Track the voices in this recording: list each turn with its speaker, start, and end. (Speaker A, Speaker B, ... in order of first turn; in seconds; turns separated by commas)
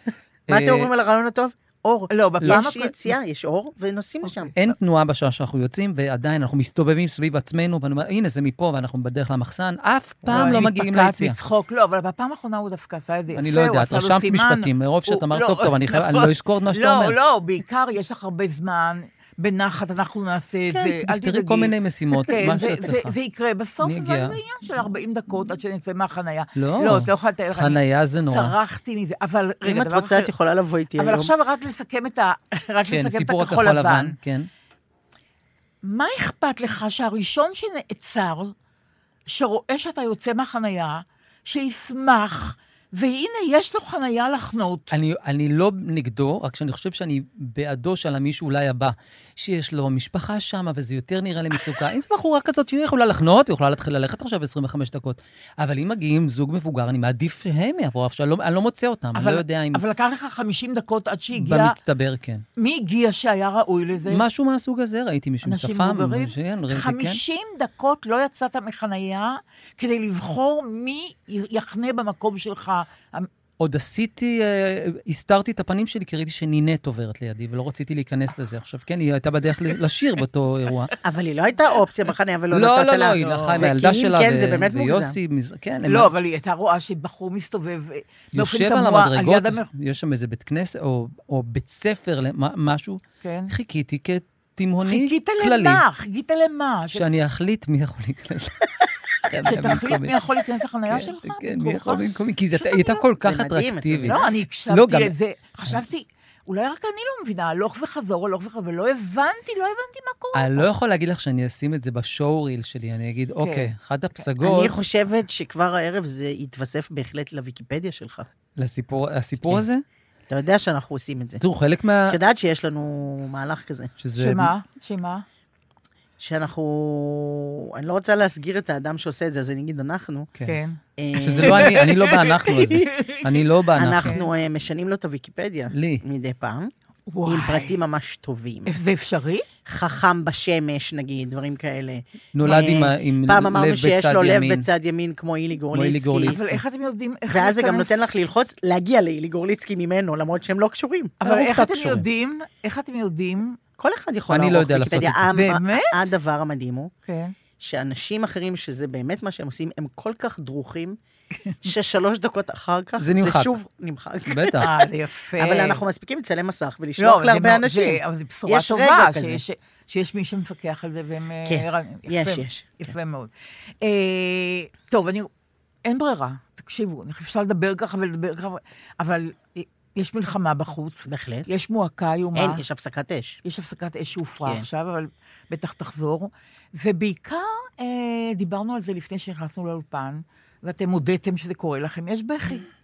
Speaker A: 0.5-4.5, Speaker B: 0.5-0.9, Speaker C: 2.1-3.1, Speaker B: 4.5-11.4, Speaker C: 10.2-30.3, Speaker B: 13.3-17.1, Speaker B: 20.9-23.1, Speaker B: 23.8-24.4, Speaker B: 26.6-28.6, Speaker A: 29.6-31.3, Speaker C: 30.9-34.2, Speaker B: 32.9-34.5, Speaker C: 35.8-38.5, Speaker C: 39.3-44.9, Speaker B: 44.9-59.8, Speaker C: 59.1-61.8, Speaker B: 61.3-62.4, Speaker C: 62.6-64.2, Speaker B: 64.1-67.2, Speaker C: 65.4-73.3, Speaker B: 73.6-80.9, Speaker A: 81.0-85.2, Speaker B: 82.5-86.1, Speaker C: 83.2-83.7, Speaker C: 85.9-89.7, Speaker B: 88.3-95.8, Speaker C: 93.2-93.5, Speaker C: 94.8-97.0, Speaker B: 96.9-100.2, Speaker C: 99.3-103.0, Speaker B: 100.9-105.1, Speaker A: 103.2-104.2, Speaker C: 104.1-110.7, Speaker B: 110.3-114.8, Speaker C: 113.4-114.2, Speaker A: 114.4-118.3, Speaker B: 118.6-119.8, Speaker A: 120.3-121.4, Speaker B: 121.4-122.2, Speaker A: 122.1-123.9, Speaker B: 124.0-124.5, Speaker C: 124.1-125.2, Speaker A: 126.2-130.3, Speaker C: 130.4-130.8, Speaker A: 131.0-131.8, Speaker B: 131.1-134.1, Speaker C: 131.4-133.4, Speaker A: 132.6-132.9, Speaker A: 133.8-136.7, Speaker C: 134.0-134.3, Speaker B: 135.7-136.0, Speaker C: 137.1-137.7, Speaker A: 137.2-138.7, Speaker C: 138.7-139.4, Speaker A: 139.7-146.4, Speaker B: 142.3-144.7, Speaker B: 145.7-146.6, Speaker C: 146.2-148.0, Speaker A: 147.3-151.2, Speaker C: 151.2-153.6, Speaker B: 151.2-152.0, Speaker A: 153.8-156.9, Speaker B: 154.3-155.3, Speaker C: 155.3-155.9, Speaker C: 157.1-157.3, Speaker A: 157.6-161.0, Speaker A: 161.6-164.6, Speaker B: 163.0-163.6, Speaker B: 164.3-164.7, Speaker C: 164.6-165.8, Speaker A: 165.4-169.4, Speaker C: 167.0-175.3, Speaker A: 171.4-172.9, Speaker C: 175.8-182.6, Speaker A: 181.1-181.5, Speaker A: 182.3-183.4, Speaker C: 183.4-192.6